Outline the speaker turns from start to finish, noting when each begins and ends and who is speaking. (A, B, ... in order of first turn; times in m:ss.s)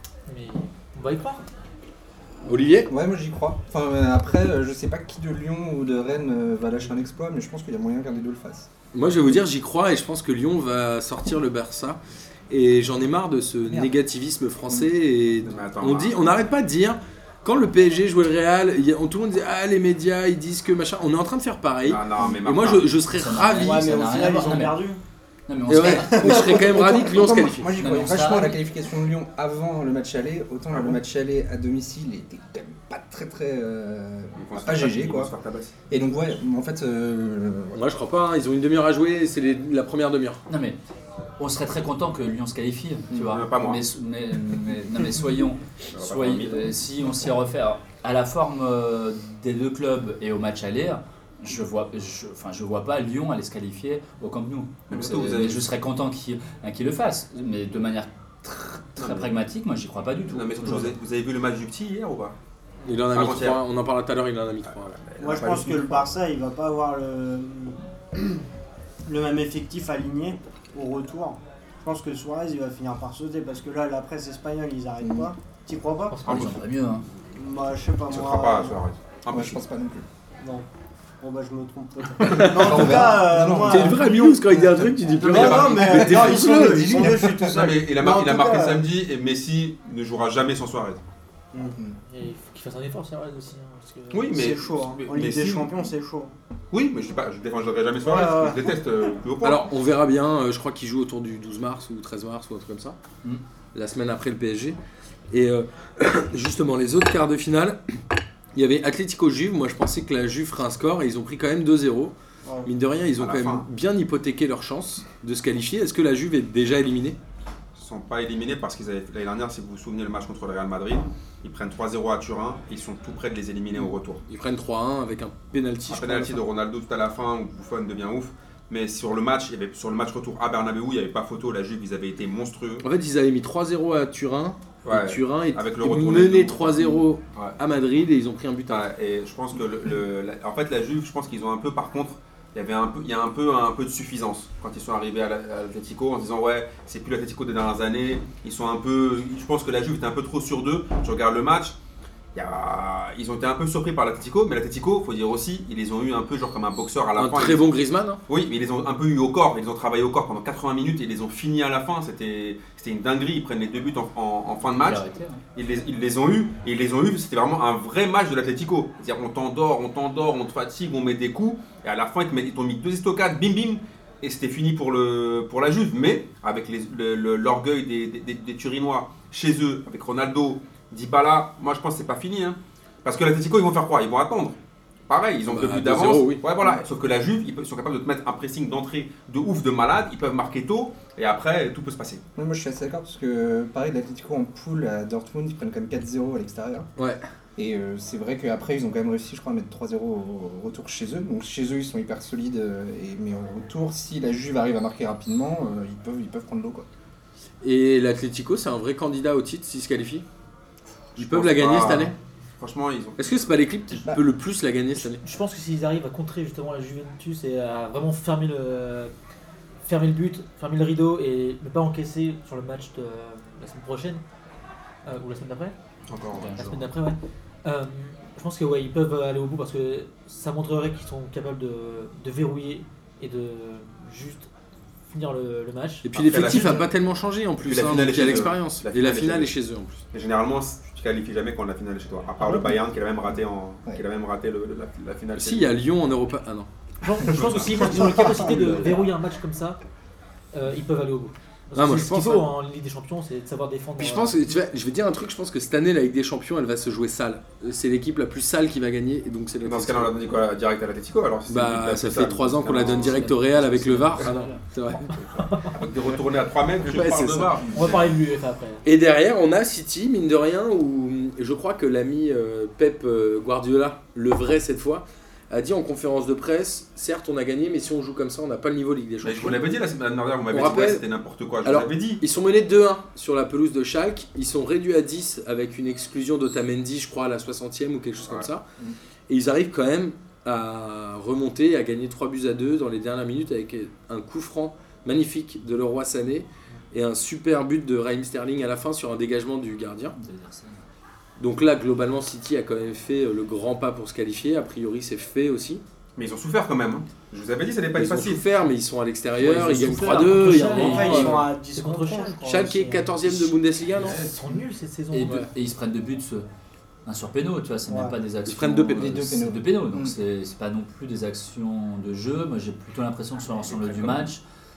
0:00.3-0:01.4 A
0:02.5-0:02.9 B
0:02.9-0:08.7 C
0:08.9-0:24.1 B
0:15.4-0:16.4 D
0:21.8-0:22.9 D
0:23.1-0:24.8 E
0:23.6-0:25.0 F
0:25.5-0:26.7 E
0:25.7-0:27.7 B
0:25.9-0:26.9 F
0:26.4-0:35.3 C
0:27.7-0:28.6 E
0:30.7-0:31.0 D
0:34.4-0:35.7 D
0:35.9-0:37.8 C
0:37.7-0:40.4 B
0:40.5-0:40.8 E
0:41.4-1:01.0 E
0:43.1-0:43.8 D
0:45.9-0:46.7 D
0:54.9-0:55.7 D
0:59.0-0:59.3 D
1:00.3-1:02.4 D
1:02.8-1:05.0 B
1:03.1-1:03.6 D
1:04.7-1:06.1 D
1:05.2-1:08.4 F
1:09.1-1:16.2 F
1:15.0-1:15.3 C
1:16.1-1:16.5 A
1:16.2-1:17.1 E
1:16.2-1:16.6 D
1:17.3-1:18.8 F
1:18.1-1:19.6 D
1:19.3-1:20.0 C
1:20.4-1:20.7 F
1:21.2-1:24.4 F
1:22.2-1:26.9 B
1:22.4-1:24.9 C
1:25.2-1:28.8 F
1:25.2-1:31.0 D
1:25.9-1:27.5 C
1:31.5-1:31.8 F
1:32.1-1:34.4 A
1:34.1-1:35.9 D
1:34.3-1:36.3 F
1:36.7-1:39.7 D
1:38.0-1:38.8 F
1:39.4-1:43.0 B
1:43.8-1:44.8 B
1:45.3-1:47.8 B
1:48.6-1:52.1 B
1:52.4-1:52.7 F
1:52.6-1:57.2 B
1:53.2-1:53.7 D
1:57.8-2:04.2 D
2:04.3-2:06.4 B
2:05.9-2:12.8 D
2:12.8-2:18.9 B
2:14.8-2:17.6 D
2:18.7-2:31.8 D
2:32.3-2:37.7 D
2:37.2-2:38.2 B
2:38.3-2:45.0 D
2:44.8-2:45.4 E
2:45.6-3:12.2 D
3:05.5-3:06.4 B
3:12.4-3:16.9 C
3:17.0-3:17.2 B
3:17.6-3:26.9 C
3:27.6-3:30.2 B
3:31.2-3:32.2 B
3:31.2-3:33.4 D
3:33.2-3:35.2 B
3:35.1-3:39.1 A
3:39.8-3:44.2 A
3:45.1-3:45.7 A
3:46.1-3:46.5 D
3:46.3-3:46.9 E
3:46.6-3:54.5 A
3:55.1-3:56.1 A
3:56.0-4:00.0 B
3:56.1-3:56.9 D
3:57.6-3:59.5 D
4:00.1-4:05.8 D
4:05.4-4:06.7 B
4:07.0-4:09.8 A
4:07.2-4:08.3 D
4:08.2-4:08.7 F
4:10.5-4:14.4 A
4:11.8-4:12.5 B
4:14.0-4:20.1 B
4:19.6-4:23.3 D
4:21.5-4:25.2 B
4:22.8-4:24.6 E
4:25.4-4:25.8 A
4:25.7-4:28.1 D
4:26.8-4:27.6 B
4:27.7-4:28.8 A
4:28.8-4:39.6 B
4:39.2-4:42.2 D
4:40.5-4:41.0 B
4:41.6-4:48.6 B
4:48.2-4:48.5 D
4:49.3-5:00.2 B
5:00.2-5:00.9 E
5:01.4-5:05.8 B
5:06.2-5:08.5 D
5:08.0-5:11.4 B
5:09.4-5:11.4 E
5:10.0-5:12.6 A
5:10.8-5:13.4 F
5:12.5-5:14.2 B
5:14.0-5:15.5 A
5:15.1-5:16.4 E
5:15.2-5:15.5 B
5:17.0-5:24.4 E
5:17.9-5:18.2 F
5:18.4-5:19.2 B
5:18.9-5:20.2 C
5:23.6-5:24.2 D